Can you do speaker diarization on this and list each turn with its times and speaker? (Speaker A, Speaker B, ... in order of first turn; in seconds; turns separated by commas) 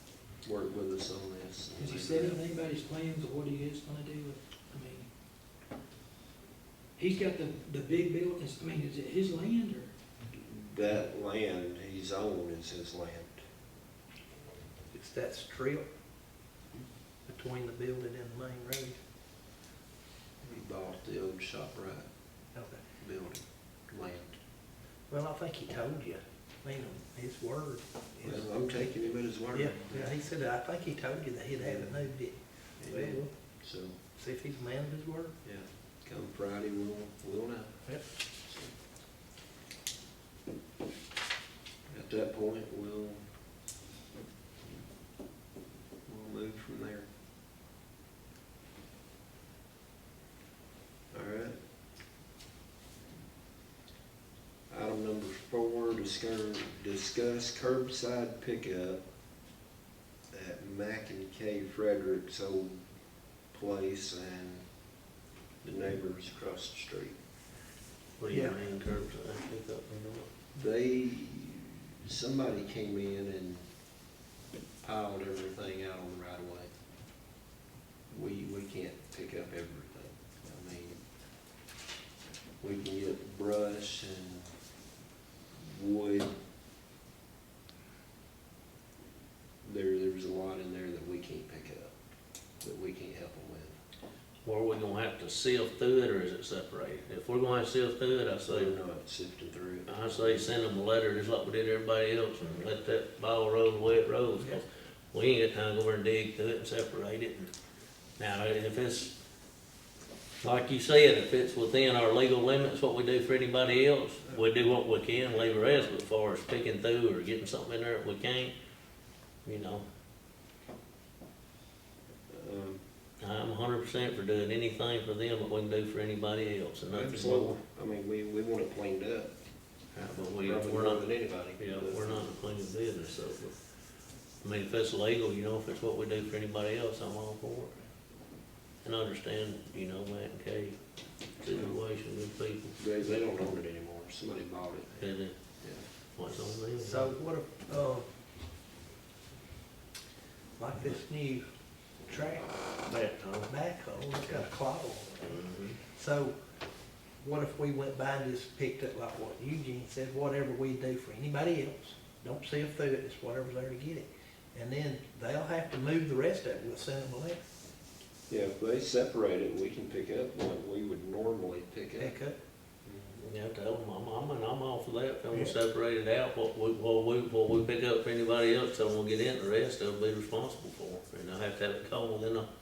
Speaker A: 0.4-2.4, Speaker B: 1.8-5.1, Speaker B: 7.0-9.9, Speaker A: 10.3-13.4, Speaker C: 14.9-15.8, Speaker C: 17.3-19.0, Speaker A: 20.4-22.1, Speaker C: 22.5-22.8, Speaker A: 23.0-24.4, Speaker C: 25.1-28.5, Speaker A: 28.2-30.1, Speaker C: 29.5-33.3, Speaker A: 31.6-32.0, Speaker A: 32.8-34.0, Speaker C: 34.1-35.4, Speaker A: 35.5-38.7, Speaker A: 41.9-43.2, Speaker A: 46.1-47.1, Speaker A: 51.1-51.6, Speaker A: 54.7-59.0, Speaker A: 60.3-62.8, Speaker A: 63.4-64.7, Speaker A: 65.6-67.2, Speaker D: 68.2-70.3, Speaker C: 68.3-68.6, Speaker A: 70.5-73.7, Speaker A: 74.8-76.7, Speaker A: 78.1-81.0, Speaker A: 82.6-84.5, Speaker A: 85.6-86.3, Speaker A: 89.6-91.9, Speaker A: 92.6-93.8, Speaker D: 94.4-98.8, Speaker A: 98.5-100.5, Speaker D: 99.9-107.5, Speaker D: 108.2-109.1, Speaker D: 110.4-118.5, Speaker D: 119.4-119.8, Speaker A: 122.3-122.8, Speaker D: 123.2-127.6, Speaker A: 126.9-129.3, Speaker D: 129.9-133.7, Speaker A: 130.4-132.3, Speaker D: 134.3-137.8, Speaker D: 138.8-142.8, Speaker A: 142.8-145.1, Speaker D: 145.0-145.3, Speaker D: 146.1-147.1, Speaker C: 146.8-148.1, Speaker C: 150.6-151.4, Speaker C: 152.0-152.6, Speaker D: 152.8-153.5, Speaker C: 153.5-156.3, Speaker D: 154.2-154.5, Speaker D: 155.2-155.8, Speaker C: 157.2-167.4, Speaker A: 168.3-172.2, Speaker C: 172.0-172.4, Speaker A: 172.8-173.2, Speaker D: 173.2-182.5